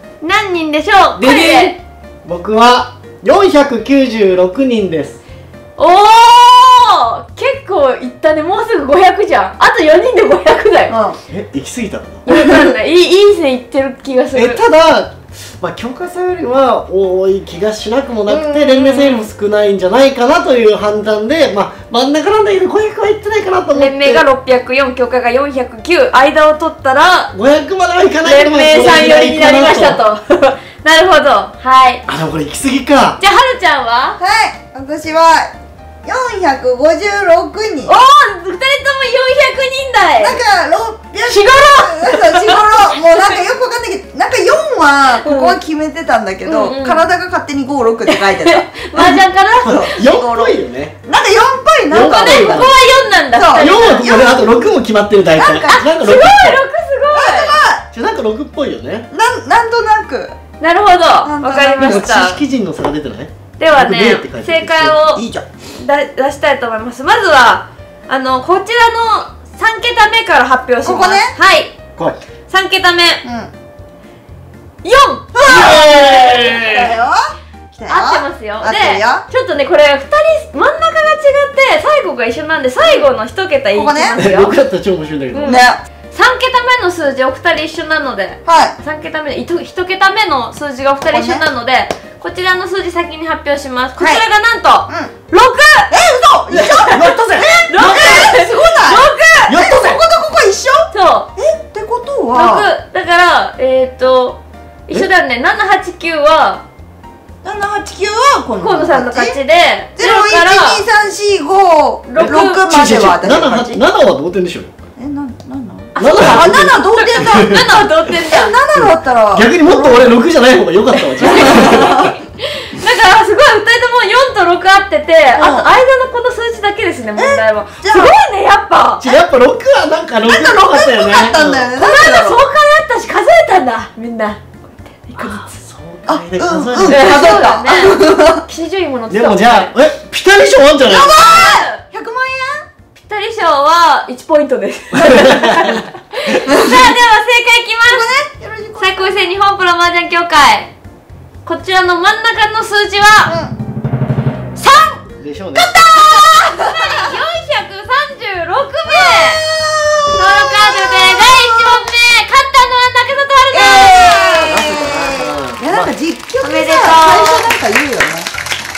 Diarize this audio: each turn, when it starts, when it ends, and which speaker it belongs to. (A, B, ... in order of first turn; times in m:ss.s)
0:00.2-0:01.8 A
0:01.2-0:05.2 B
0:05.8-0:11.0 A
0:10.9-0:11.2 C
0:11.3-0:12.2 B
0:12.2-0:14.6 A
0:12.3-0:12.7 C
0:14.3-0:24.2 B
0:18.3-0:19.1 A
0:23.7-0:27.3 A
0:27.3-0:30.0 B
0:28.2-0:32.0 A
0:32.0-0:33.2 B
0:33.2-0:34.2 A
0:34.2-0:35.5 C
0:36.0-0:37.9 C
0:37.8-0:40.4 A
0:40.2-0:52.7 C
0:41.2-0:42.1 B
0:42.5-0:43.4 A
0:45.2-0:45.6 A
0:46.4-0:47.0 A
0:48.1-0:50.0 A
0:49.6-0:50.9 B
0:51.9-0:52.8 B
0:51.9-0:54.1 A
0:53.3-0:54.7 C
0:53.6-0:56.6 B
0:55.4-0:55.8 C
0:55.7-0:57.6 A
0:57.1-0:57.8 C
0:57.9-0:59.1 B
0:59.1-1:00.4 C
1:00.6-1:02.4 A
1:01.2-1:02.0 C
1:01.8-1:05.0 B
1:03.6-1:11.8 A
1:05.1-1:05.4 C
1:10.8-1:11.4 C
1:12.5-1:13.2 A
1:13.2-1:13.5 C
1:14.8-1:15.9 A
1:15.3-1:19.2 C
1:15.4-1:16.9 B
1:17.9-1:24.5 A
1:23.7-1:24.2 C
1:24.2-1:25.6 B
1:25.3-1:35.9 A
1:25.4-1:25.8 C
1:28.4-1:28.8 C
1:31.0-1:31.4 C
1:34.0-1:34.2 C
1:34.9-1:35.1 C
1:35.9-1:42.7 C
1:36.5-1:38.3 B
1:36.6-1:36.9 A
1:37.7-1:39.5 A
1:39.5-1:40.0 B
1:40.9-1:41.3 A
1:42.3-1:46.6 A
1:47.4-1:49.4 C
1:48.6-1:50.8 A
1:50.0-1:53.8 C
1:52.1-1:52.7 A
1:52.2-1:54.7 B
1:55.0-1:57.4 C
1:55.9-1:58.6 A
1:56.0-1:57.6 B
1:58.2-2:00.1 C
1:58.7-2:02.1 B
2:00.9-2:09.1 A
2:01.3-2:02.1 C
2:05.3-2:05.7 C
2:07.1-2:08.1 C
2:09.0-2:11.7 B
2:10.2-2:12.4 C
2:11.8-2:15.6 A
2:15.2-2:17.4 B
2:16.1-2:18.4 C
2:16.8-2:19.7 A
2:19.1-2:21.6 B
2:20.9-2:22.6 C
2:21.1-2:21.8 A
2:22.9-2:28.1 A
2:24.9-2:25.8 B
2:27.9-2:29.3 C
2:28.8-2:30.7 A
2:31.4-2:33.4 A
2:33.2-2:33.5 C
2:34.5-2:35.0 A
2:35.2-2:35.8 B
2:35.5-2:37.1 C
2:36.2-2:39.4 A
2:38.8-2:41.8 C
2:40.1-2:44.7 A
2:43.5-2:48.3 C
2:44.3-2:45.9 B
2:46.4-2:47.5 A